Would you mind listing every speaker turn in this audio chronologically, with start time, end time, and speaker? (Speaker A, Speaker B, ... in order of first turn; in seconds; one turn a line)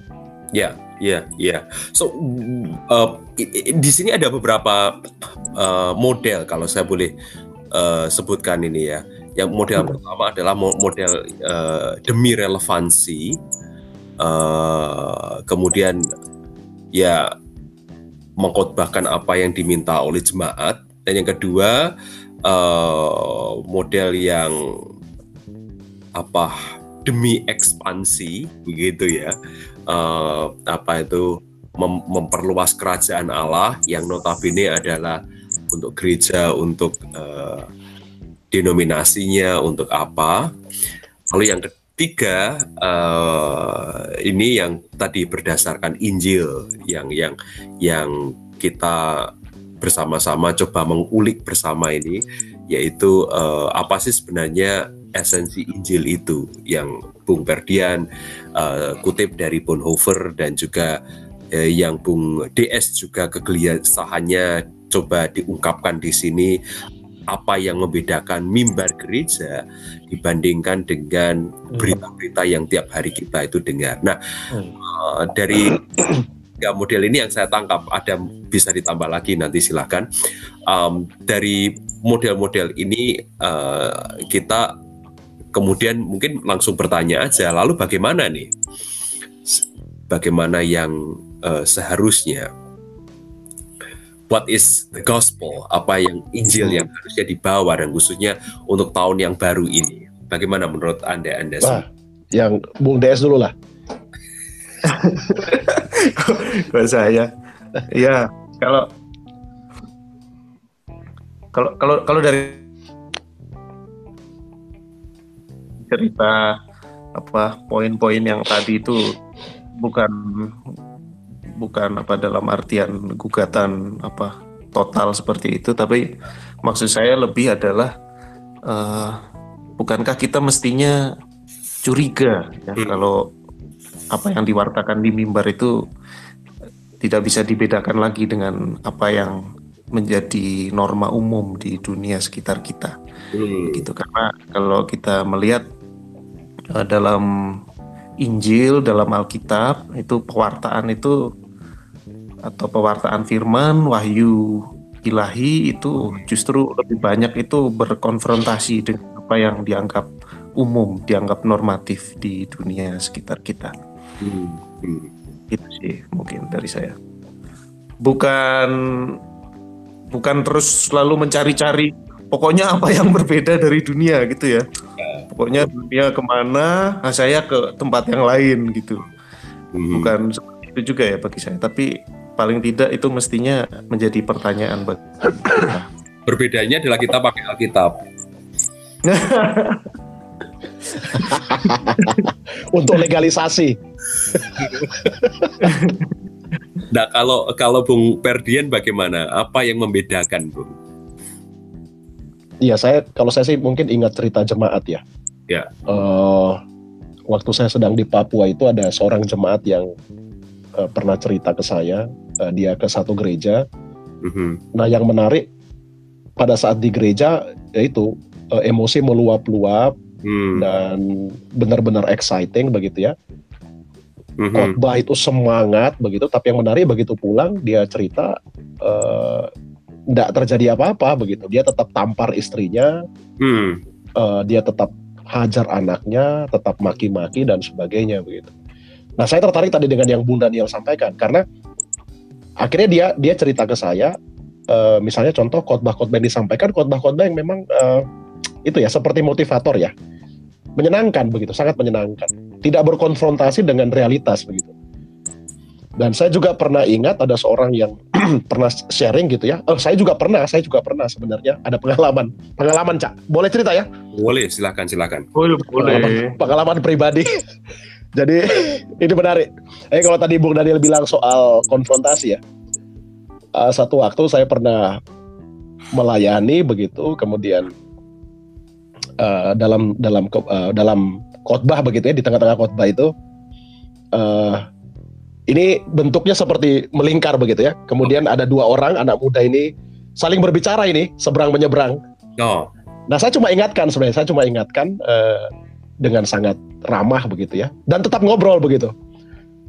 Speaker A: 0.5-7.1
Speaker A: 7.7-13.4
Speaker A: 14.2-16.0
Speaker A: 16.9-17.3
Speaker A: 18.4-21.8
Speaker A: 22.4-24.9
Speaker A: 26.2-29.3
Speaker A: 29.9-35.2
Speaker A: 35.7-37.7
Speaker A: 38.5-40.5
Speaker A: 41.3-58.0
Speaker A: 58.5-61.0
Speaker A: 61.5-66.5
Speaker A: 67.3-80.0
Speaker A: 80.7-84.7
Speaker A: 85.5-88.5
Speaker A: 89.5-92.5
Speaker A: 94.3-101.8
Speaker B: 96.5-96.9
Speaker B: 101.6-103.5
Speaker C: 104.8-107.3
Speaker C: 107.9-108.9
Speaker C: 111.5-112.7
Speaker C: 115.8-116.5
Speaker C: 117.2-119.2
Speaker C: 119.8-120.6
Speaker C: 121.6-126.1
Speaker C: 126.6-127.9
Speaker C: 128.7-129.2
Speaker C: 129.8-131.0
Speaker C: 131.8-133.2
Speaker C: 134.1-135.7
Speaker C: 137.0-139.4
Speaker C: 139.9-142.9
Speaker A: 143.3-143.8
Speaker C: 143.7-145.7
Speaker C: 146.7-147.3
Speaker C: 148.2-151.2
Speaker C: 152.4-163.7
Speaker A: 164.2-165.1
Speaker C: 165.5-166.9
Speaker C: 168.0-169.2
Speaker C: 170.1-174.6
Speaker A: 175.0-175.7
Speaker C: 175.3-179.1
Speaker A: 179.7-180.1
Speaker C: 179.9-185.7
Speaker B: 185.6-185.8
Speaker A: 186.2-188.0
Speaker C: 189.1-189.9
Speaker B: 191.1-193.8
Speaker C: 191.1-192.2
Speaker B: 194.3-195.6
Speaker A: 194.6-194.9
Speaker C: 195.6-196.1
Speaker A: 196.9-200.8
Speaker B: 202.6-205.0
Speaker A: 205.5-205.8
Speaker B: 205.9-206.6
Speaker B: 207.3-209.9
Speaker B: 210.8-213.6
Speaker A: 214.2-214.6
Speaker B: 214.7-215.4
Speaker B: 216.4-219.9
Speaker A: 220.2-220.7
Speaker B: 220.5-223.1
Speaker A: 224.4-224.8
Speaker B: 224.5-229.5
Speaker B: 230.1-232.9
Speaker A: 233.4-233.8
Speaker B: 234.2-238.5
Speaker B: 239.2-241.4
Speaker B: 242.6-244.1
Speaker B: 244.7-248.0
Speaker B: 248.6-249.9
Speaker B: 250.8-254.7
Speaker B: 256.0-263.9
Speaker A: 264.1-265.3
Speaker C: 265.3-266.4
Speaker B: 265.8-267.4
Speaker B: 268.1-272.4
Speaker B: 273.5-275.0
Speaker B: 275.9-277.7
Speaker B: 279.2-283.1
Speaker B: 284.1-284.6
Speaker B: 285.5-292.0
Speaker A: 292.4-292.7
Speaker B: 293.1-295.5
Speaker B: 296.0-298.9